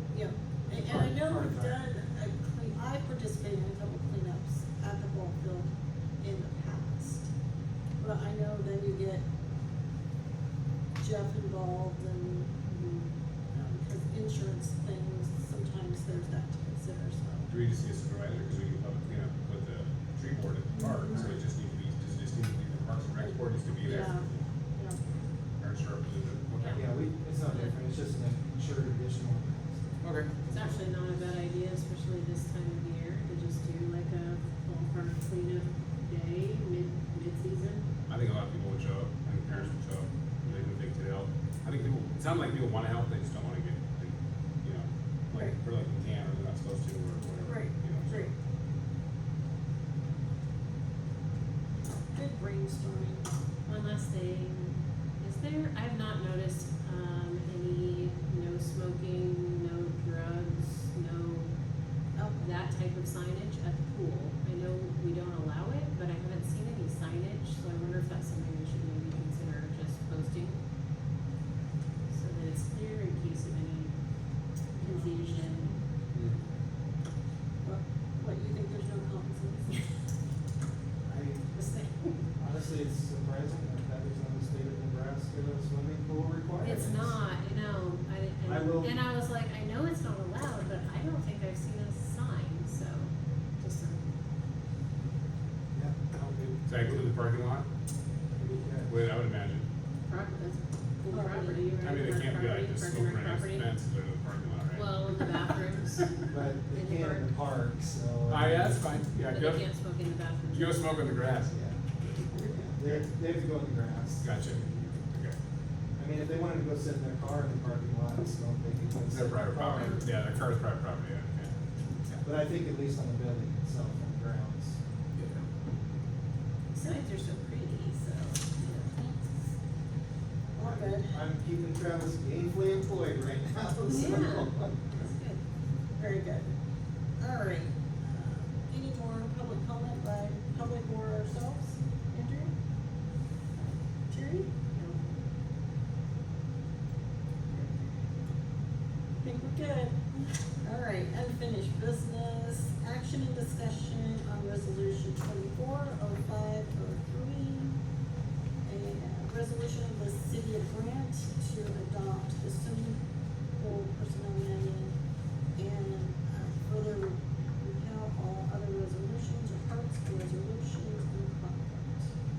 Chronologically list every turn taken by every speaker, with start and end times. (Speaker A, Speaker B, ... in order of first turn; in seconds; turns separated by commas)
Speaker A: 0.1-7.3, Speaker B: 0.7-1.8, Speaker A: 8.0-9.2, Speaker A: 11.0-12.6, Speaker C: 12.6-13.1, Speaker A: 13.5-17.5, Speaker D: 17.5-24.5, Speaker A: 20.7-21.4, Speaker A: 23.2-25.0, Speaker D: 25.6-26.8, Speaker C: 26.6-26.8, Speaker B: 26.7-30.8, Speaker C: 27.5-27.7, Speaker D: 30.0-30.3, Speaker C: 30.5-37.9, Speaker D: 38.1-48.3, Speaker A: 45.3-45.6, Speaker A: 47.4-48.3, Speaker A: 51.9-53.3, Speaker C: 53.6-61.5, Speaker A: 62.1-62.6, Speaker C: 62.4-70.6, Speaker C: 72.1-74.0, Speaker A: 74.7-75.8, Speaker C: 74.8-75.8, Speaker A: 77.6-79.8, Speaker B: 81.0-81.5, Speaker A: 81.5-82.2, Speaker B: 82.3-87.2, Speaker C: 86.6-94.1, Speaker B: 88.4-89.0, Speaker B: 95.7-97.0, Speaker D: 96.7-97.7, Speaker B: 98.3-99.1, Speaker D: 98.9-99.7, Speaker C: 100.1-103.7, Speaker A: 101.1-101.8, Speaker D: 101.8-105.1, Speaker C: 104.7-107.3, Speaker B: 106.3-109.0, Speaker D: 108.3-109.7, Speaker C: 109.3-111.3, Speaker D: 110.5-111.5, Speaker B: 111.5-111.8, Speaker B: 112.5-115.0, Speaker D: 114.2-115.4, Speaker B: 116.0-120.0, Speaker D: 119.1-122.2, Speaker C: 119.8-120.0, Speaker B: 122.2-124.8, Speaker D: 125.1-125.4, Speaker C: 126.7-129.0, Speaker A: 128.7-129.2, Speaker B: 130.5-134.7, Speaker A: 130.6-131.2, Speaker C: 133.9-134.5, Speaker A: 133.9-136.6, Speaker A: 137.2-142.5, Speaker A: 144.1-144.6, Speaker A: 149.2-157.8, Speaker A: 158.6-163.0, Speaker A: 163.6-165.0, Speaker A: 165.5-172.1